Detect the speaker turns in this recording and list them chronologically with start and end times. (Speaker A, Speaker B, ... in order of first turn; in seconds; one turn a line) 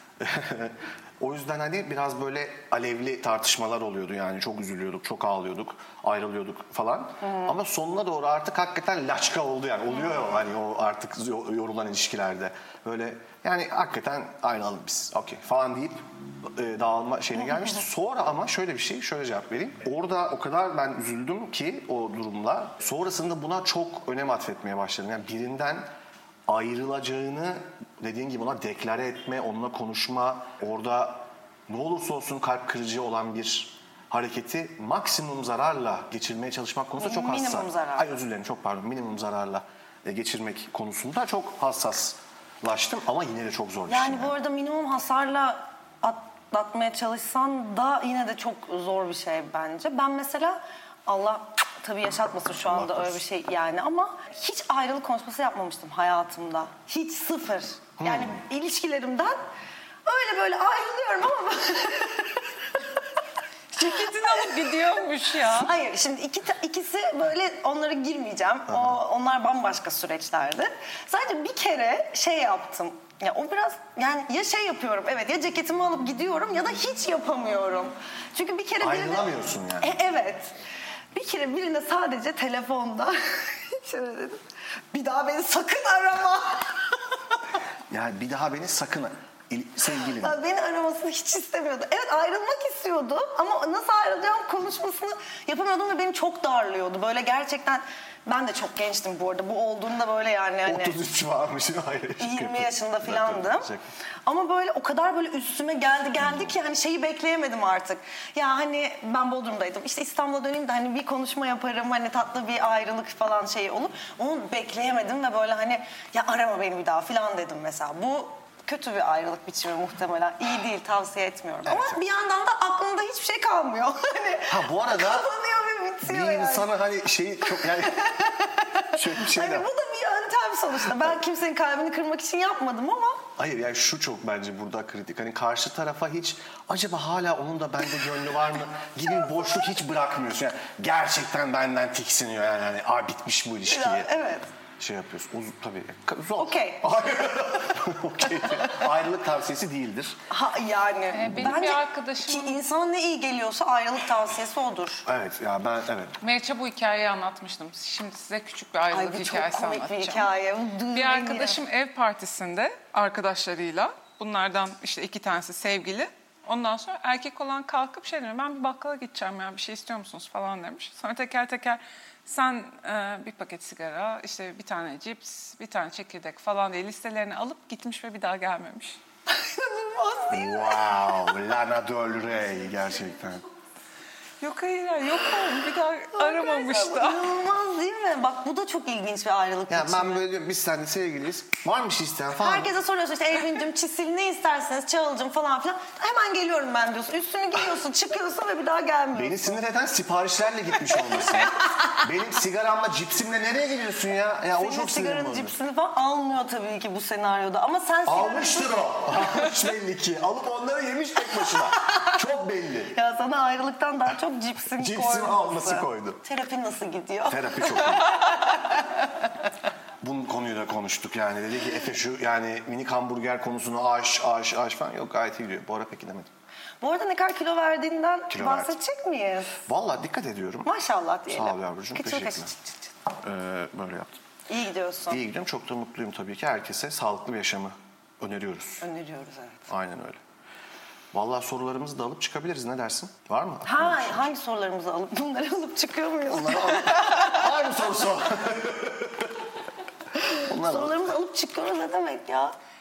Speaker A: 0.2-25.9
Speaker B: 7.2-7.5
Speaker A: 26.5-44.3
Speaker B: 37.0-38.1
Speaker B: 43.9-59.4
Speaker A: 52.7-53.2
Speaker A: 58.0-58.4
Speaker B: 60.0-62.5
Speaker C: 63.7-65.7
Speaker B: 63.9-64.5
Speaker B: 65.5-80.5
Speaker A: 68.7-69.0
Speaker A: 78.8-79.9
Speaker B: 81.1-87.0
Speaker A: 87.9-90.4
Speaker B: 90.0-101.0
Speaker A: 100.7-103.9
Speaker B: 102.2-103.7
Speaker B: 104.2-126.7
Speaker A: 106.2-106.5
Speaker A: 121.7-122.0
Speaker A: 124.5-125.3
Speaker A: 126.0-128.2
Speaker B: 127.5-133.2
Speaker A: 128.9-129.7
Speaker A: 133.4-144.1
Speaker B: 139.1-139.7
Speaker B: 143.7-144.5
Speaker A: 144.8-150.2
Speaker B: 146.4-147.4
Speaker B: 150.3-155.1
Speaker C: 151.1-152.6
Speaker A: 155.1-156.2
Speaker C: 156.2-160.3
Speaker B: 158.9-161.6
Speaker C: 160.9-179.0
Speaker B: 179.3-181.4
Speaker A: 180.3-183.4
Speaker C: 184.4-187.3
Speaker B: 186.2-190.2
Speaker A: 189.7-192.7
Speaker B: 192.4-199.6
Speaker A: 199.1-205.6
Speaker B: 200.9-202.0
Speaker B: 204.6-209.5
Speaker A: 208.1-213.0
Speaker B: 212.9-218.9
Speaker A: 214.8-216.2
Speaker A: 217.3-218.3
Speaker A: 220.0-226.3
Speaker B: 226.8-229.6
Speaker A: 228.3-228.7
Speaker A: 229.7-230.7
Speaker B: 230.7-232.9
Speaker A: 231.3-232.5
Speaker A: 233.2-234.2
Speaker B: 234.5-235.2
Speaker A: 235.1-238.8
Speaker B: 238.8-239.7
Speaker A: 239.7-240.2
Speaker A: 241.1-244.3
Speaker B: 243.7-247.5
Speaker A: 246.3-249.4
Speaker B: 250.2-252.5
Speaker A: 250.5-251.2